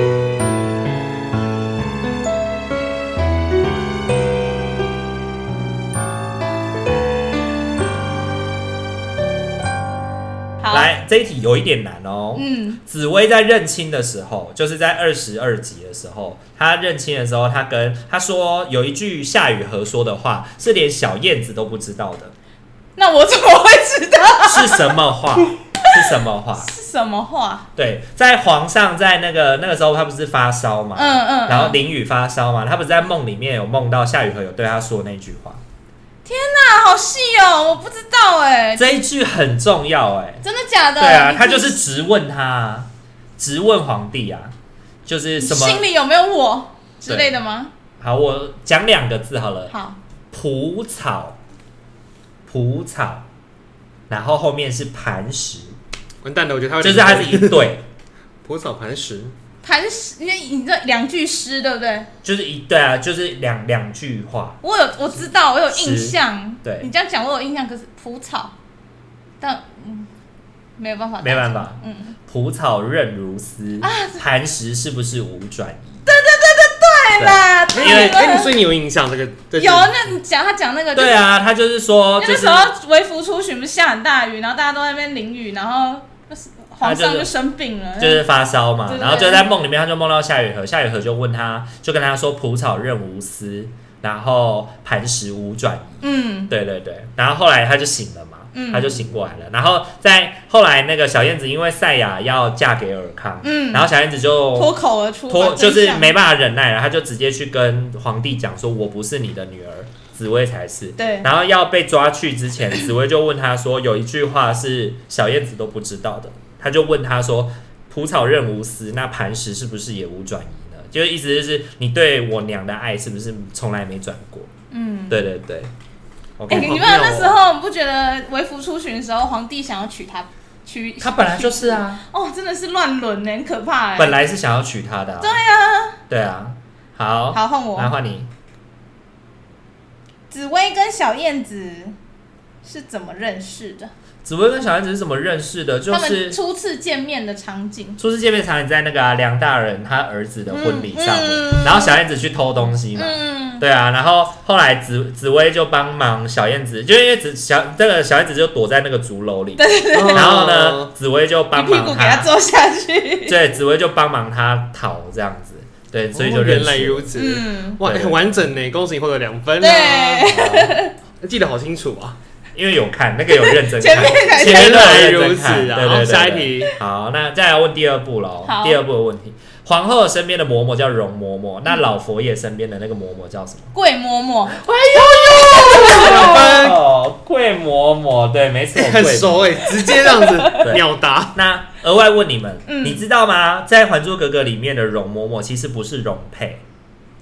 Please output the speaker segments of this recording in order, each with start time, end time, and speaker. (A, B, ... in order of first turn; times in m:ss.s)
0:10.6-0:10.9 A
0:10.7-0:22.3 B
0:12.4-0:12.8 A
0:23.0-0:24.9 A
0:24.4-0:26.7 B
0:25.8-0:27.7 A
0:27.8-0:35.6 B
0:31.0-0:31.8 A
0:36.2-0:38.9 A
0:38.8-0:40.4 B
0:40.4-0:41.8 A
0:41.0-0:44.5 B
0:45.1-0:45.8 B
0:45.4-0:47.7 A
0:48.0-0:49.7 B
0:49.7-0:50.0 A
0:50.3-0:51.4 B
0:52.5-0:53.3 B
0:54.1-0:55.8 B
0:56.2-0:57.7 C
0:56.8-0:57.8 B
0:58.4-0:59.4 C
0:59.6-1:02.1 A
1:02.2-1:04.6 B
1:04.6-1:08.5 A
1:05.7-1:06.9 B
1:09.4-1:10.1 A
1:10.8-1:12.2 A
1:11.2-1:16.0 B
1:13.8-1:14.2 A
1:16.1-1:18.6 A
1:17.2-1:18.1 B
1:17.7-1:19.9 C
1:19.6-1:21.2 A
1:20.9-1:22.7 B
1:22.2-1:28.2 A
1:26.8-1:27.3 B
1:28.0-1:44.7 B
1:28.9-1:29.5 A
1:36.0-1:36.5 A
1:38.5-1:39.0 A
1:43.4-1:43.9 A
1:44.6-1:46.1 A
1:45.3-2:04.5 B
1:51.0-1:51.3 A
2:04.7-2:05.2 A
2:05.1-2:05.7 B
2:06.4-2:06.9 B
2:06.5-2:07.4 C
2:06.5-2:14.2 A
2:11.0-2:12.0 B
2:14.0-2:15.4 B
2:15.2-2:16.0 A
2:16.1-2:18.3 B
2:17.3-2:17.9 A
2:20.3-2:22.0 A
2:22.6-2:23.9 A
2:24.2-2:26.4 B
2:25.9-2:28.0 A
2:28.0-2:42.3 B
2:30.5-2:32.0 A
2:33.0-2:33.6 A
2:39.6-2:40.4 A
2:39.9-2:40.9 C
2:41.6-2:43.4 A
2:43.3-2:47.1 B
2:46.1-2:50.4 C
2:47.2-2:47.8 A
2:47.8-2:48.5 B
2:49.6-2:50.9 A
2:50.3-2:50.8 B
2:51.2-2:52.2 C
2:52.6-3:03.7 B
2:53.3-2:54.9 A
2:54.3-2:56.8 C
2:58.4-2:58.8 A
3:03.7-3:04.6 A
3:04.5-3:09.7 B
3:05.1-3:06.6 A
3:05.7-3:06.8 C
3:08.7-3:11.3 C
3:09.8-3:10.6 A
3:10.6-3:16.6 B
3:12.7-3:13.0 A